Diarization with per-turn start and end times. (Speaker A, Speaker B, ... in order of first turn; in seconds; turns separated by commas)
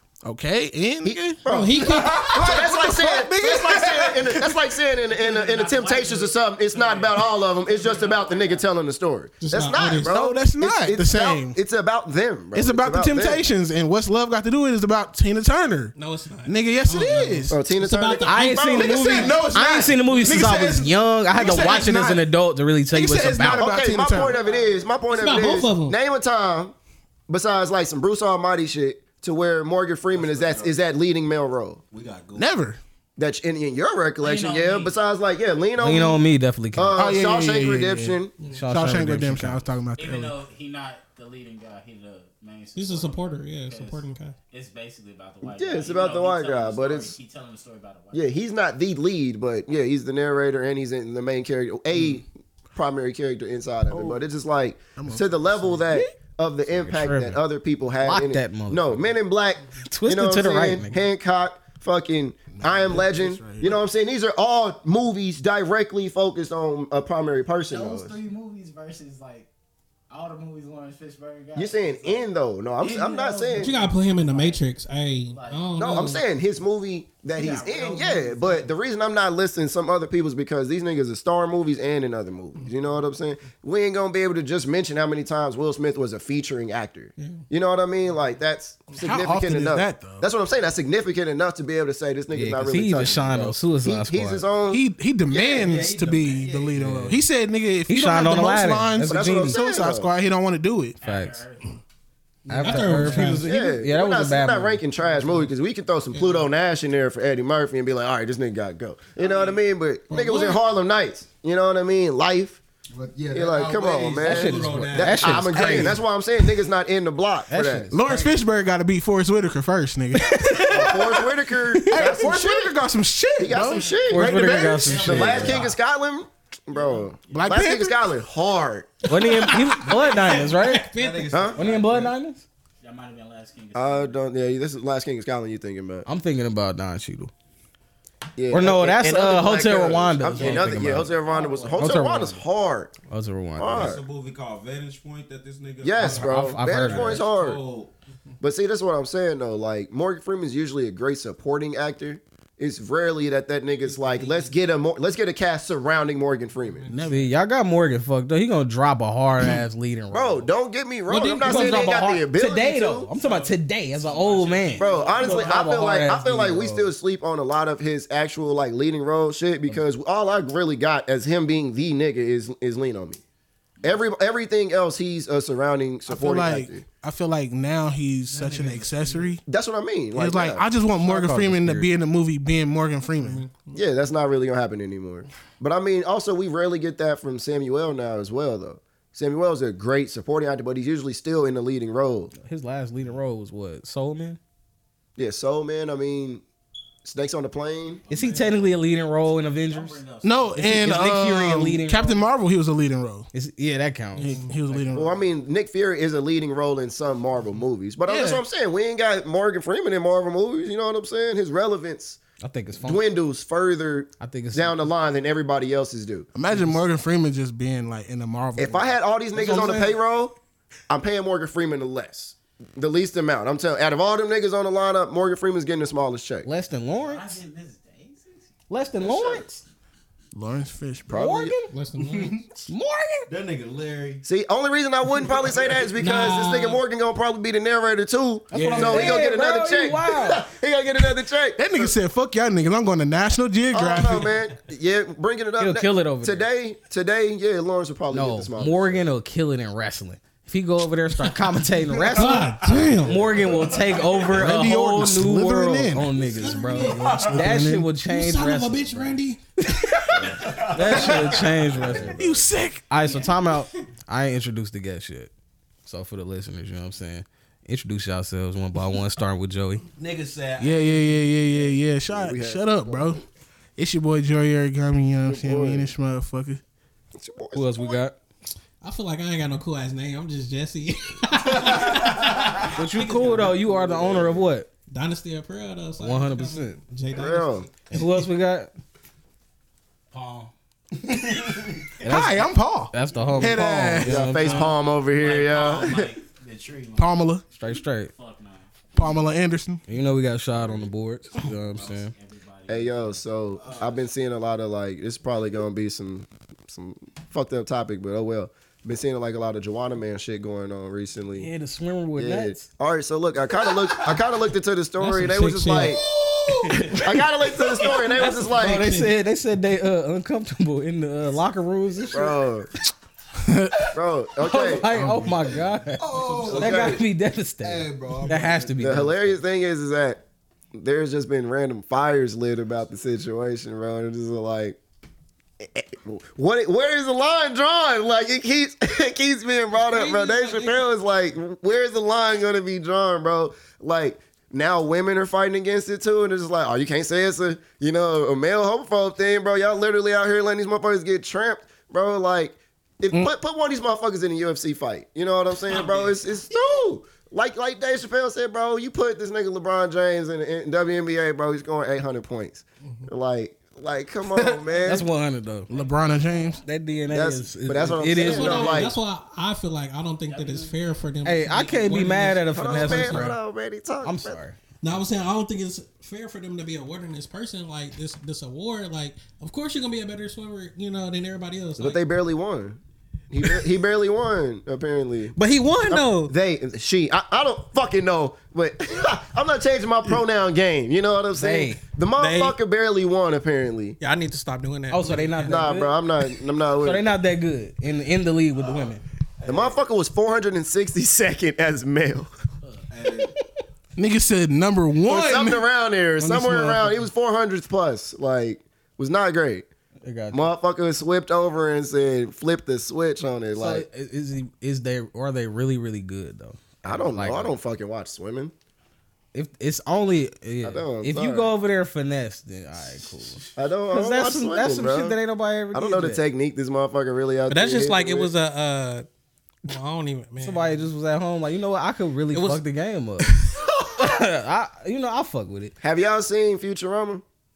Speaker A: 0.2-4.6, Speaker B: 1.0-13.4, Speaker C: 1.5-2.3, Speaker D: 5.1-8.6, Speaker C: 9.4-10.2, Speaker A: 10.0-11.6, Speaker A: 12.5-15.9, Speaker C: 15.9-18.9, Speaker A: 16.5-17.5, Speaker B: 17.5-19.4, Speaker E: 18.2-23.8, Speaker A: 18.7-22.3, Speaker A: 22.9-24.4, Speaker B: 23.4-26.7, Speaker D: 24.1-24.9, Speaker C: 25.1-26.0, Speaker B: 27.3-31.8, Speaker F: 30.1-30.7, Speaker F: 31.9-32.5, Speaker A: 32.4-32.8, Speaker B: 33.2-36.2, Speaker D: 34.2-35.0, Speaker E: 35.8-37.0, Speaker B: 36.8-38.3, Speaker A: 37.0-40.4, Speaker E: 38.4-39.7, Speaker D: 40.0-48.3, Speaker C: 42.8-44.4, Speaker B: 45.4-47.2, Speaker B: 48.1-68.2, Speaker A: 53.9-54.2, Speaker A: 55.0-56.0, Speaker E: 56.7-57.4, Speaker E: 58.0-59.1, Speaker E: 59.9-61.0, Speaker A: 62.5-63.8, Speaker D: 67.7-69.5, Speaker D: 70.1-72.3, Speaker B: 71.6-73.7, Speaker D: 72.8-74.6, Speaker C: 73.6-76.2, Speaker D: 75.3-76.0, Speaker B: 75.8-95.7, Speaker D: 77.3-78.7, Speaker A: 89.0-90.3, Speaker E: 92.3-94.5, Speaker A: 94.7-101.0, Speaker F: 95.3-96.8, Speaker E: 96.8-97.2, Speaker E: 97.9-99.6, Speaker B: 99.1-100.1, Speaker E: 101.0-101.4, Speaker D: 101.0-101.8, Speaker E: 102.5-104.8, Speaker C: 102.6-103.5, Speaker D: 102.6-103.3, Speaker A: 103.0-103.3, Speaker B: 103.4-112.6, Speaker C: 106.1-106.5, Speaker C: 110.1-110.6, Speaker F: 112.9-115.5, Speaker B: 113.3-117.9, Speaker E: 114.2-116.0, Speaker A: 115.5-116.0, Speaker E: 117.5-118.2, Speaker A: 117.9-125.6, Speaker D: 118.0-118.3, Speaker C: 120.5-120.9, Speaker B: 120.7-122.8, Speaker B: 123.4-129.0, Speaker D: 123.5-124.1, Speaker E: 124.1-125.7, Speaker D: 124.7-125.8, Speaker D: 126.8-127.3, Speaker A: 127.3-128.0, Speaker C: 129.1-131.5, Speaker E: 129.1-130.9, Speaker F: 130.9-132.1, Speaker B: 131.3-131.6, Speaker E: 131.6-132.4, Speaker D: 132.8-134.2, Speaker B: 133.8-136.1, Speaker E: 136.1-137.3, Speaker B: 138.4-142.9, Speaker E: 138.5-141.1, Speaker D: 140.3-142.1, Speaker E: 141.8-142.4, Speaker E: 143.1-144.0, Speaker B: 143.6-144.0, Speaker F: 143.7-147.9, Speaker B: 145.8-147.6, Speaker E: 146.0-147.3, Speaker B: 148.4-156.9, Speaker D: 153.9-154.5, Speaker A: 156.9-157.3, Speaker E: 157.1-160.5, Speaker B: 160.1-163.1, Speaker C: 161.1-161.9, Speaker E: 161.2-166.9, Speaker D: 163.2-165.6, Speaker F: 164.2-165.3, Speaker B: 164.8-173.2, Speaker D: 173.8-174.1, Speaker B: 173.8-176.9, Speaker A: 176.1-179.4, Speaker D: 178.3-179.4, Speaker B: 179.5-180.7, Speaker A: 180.2-183.4, Speaker E: 181.0-181.9, Speaker C: 183.2-183.8, Speaker B: 183.7-192.3, Speaker E: 192.3-194.4, Speaker B: 195.2-196.4, Speaker B: 197.0-198.0, Speaker E: 198.1-200.1, Speaker D: 198.1-201.0, Speaker A: 200.2-203.3, Speaker E: 200.6-202.2, Speaker E: 203.3-204.4, Speaker C: 204.2-204.5, Speaker A: 204.2-205.1, Speaker D: 204.4-205.1, Speaker B: 204.9-212.2, Speaker A: 208.1-208.4, Speaker E: 212.4-213.0, Speaker B: 212.8-216.3, Speaker E: 214.2-214.8, Speaker A: 216.3-218.9, Speaker E: 216.5-216.8, Speaker B: 218.6-220.3, Speaker E: 219.3-220.0, Speaker B: 220.9-226.5, Speaker E: 226.4-227.4, Speaker D: 226.9-228.5, Speaker E: 228.7-229.6, Speaker B: 229.0-229.4, Speaker A: 230.3-231.2, Speaker B: 231.1-231.6, Speaker E: 231.1-231.7, Speaker C: 231.7-232.4, Speaker A: 231.9-232.4, Speaker E: 232.7-233.3, Speaker F: 233.3-234.2, Speaker B: 234.2-241.9, Speaker F: 235.3-235.9, Speaker C: 236.0-236.8, Speaker E: 238.5-240.5, Speaker A: 238.6-238.9, Speaker A: 241.6-244.4, Speaker B: 243.7-249.1, Speaker E: 245.6-246.5, Speaker E: 248.1-265.3, Speaker C: 252.1-253.2, Speaker A: 252.2-252.8, Speaker F: 252.3-254.2, Speaker A: 254.3-256.2, Speaker C: 256.2-257.3, Speaker F: 256.8-257.4, Speaker A: 257.0-257.9, Speaker C: 258.0-259.4, Speaker F: 260.2-262.0, Speaker A: 262.0-262.9, Speaker E: 265.9-269.8, Speaker F: 270.0-271.2, Speaker A: 270.6-273.2, Speaker B: 272.0-273.2, Speaker A: 273.8-276.6, Speaker B: 275.3-275.9, Speaker B: 277.1-278.0, Speaker E: 277.5-278.2, Speaker C: 278.8-283.4, Speaker F: 281.5-282.7, Speaker E: 282.8-284.7, Speaker B: 283.3-284.4, Speaker C: 284.9-288.0, Speaker E: 286.0-286.8, Speaker B: 287.1-287.7, Speaker E: 287.9-288.7, Speaker D: 290.1-290.5, Speaker F: 291.2-291.6, Speaker A: 292.0-294.2, Speaker E: 292.0-294.7, Speaker B: 294.0-296.1, Speaker D: 294.5-298.7, Speaker A: 297.0-297.4, Speaker E: 297.5-298.1, Speaker A: 298.9-299.8, Speaker E: 299.9-302.1, Speaker D: 300.6-300.9, Speaker D: 301.4-304.0, Speaker B: 302.7-311.5, Speaker E: 311.4-312.7, Speaker B: 312.2-316.0, Speaker F: 313.8-314.2, Speaker C: 315.0-316.0, Speaker F: 315.9-316.9, Speaker B: 317.0-319.0, Speaker C: 317.8-319.1, Speaker E: 318.2-322.4, Speaker B: 322.1-322.7, Speaker A: 323.4-323.8, Speaker B: 323.9-324.9, Speaker E: 324.4-329.3, Speaker A: 324.9-325.2, Speaker F: 325.0-327.1, Speaker F: 327.6-328.9, Speaker B: 328.8-330.2, Speaker B: 330.7-334.8, Speaker B: 335.6-365.1, Speaker C: 339.8-340.9, Speaker E: 364.9-365.7, Speaker A: 365.7-366.6, Speaker D: 365.8-366.5, Speaker E: 366.6-368.9, Speaker B: 367.1-369.0, Speaker C: 368.1-373.4, Speaker D: 370.3-370.8, Speaker E: 371.2-373.4, Speaker B: 372.5-374.4, Speaker E: 374.0-374.6, Speaker C: 374.8-382.0, Speaker B: 381.8-382.8, Speaker B: 383.3-385.4, Speaker C: 385.4-386.3, Speaker B: 385.9-394.0, Speaker E: 391.3-391.8, Speaker C: 392.2-392.6, Speaker C: 394.0-395.4, Speaker E: 394.9-395.9, Speaker B: 395.4-397.1, Speaker E: 396.8-399.0, Speaker F: 399.4-399.8, Speaker B: 399.5-402.3, Speaker F: 402.9-403.3, Speaker A: 404.0-405.6, Speaker B: 405.1-409.7, Speaker A: 406.2-407.0, Speaker E: 410.0-410.5, Speaker B: 410.3-413.9, Speaker E: 413.6-417.5, Speaker B: 416.9-418.5, Speaker E: 419.3-426.2, Speaker B: 420.6-421.5, Speaker B: 423.6-425.2, Speaker B: 425.7-428.3, Speaker C: 427.5-429.1, Speaker C: 429.7-430.7, Speaker E: 430.4-433.3, Speaker C: 432.3-432.6, Speaker E: 433.8-435.7, Speaker B: 435.8-437.2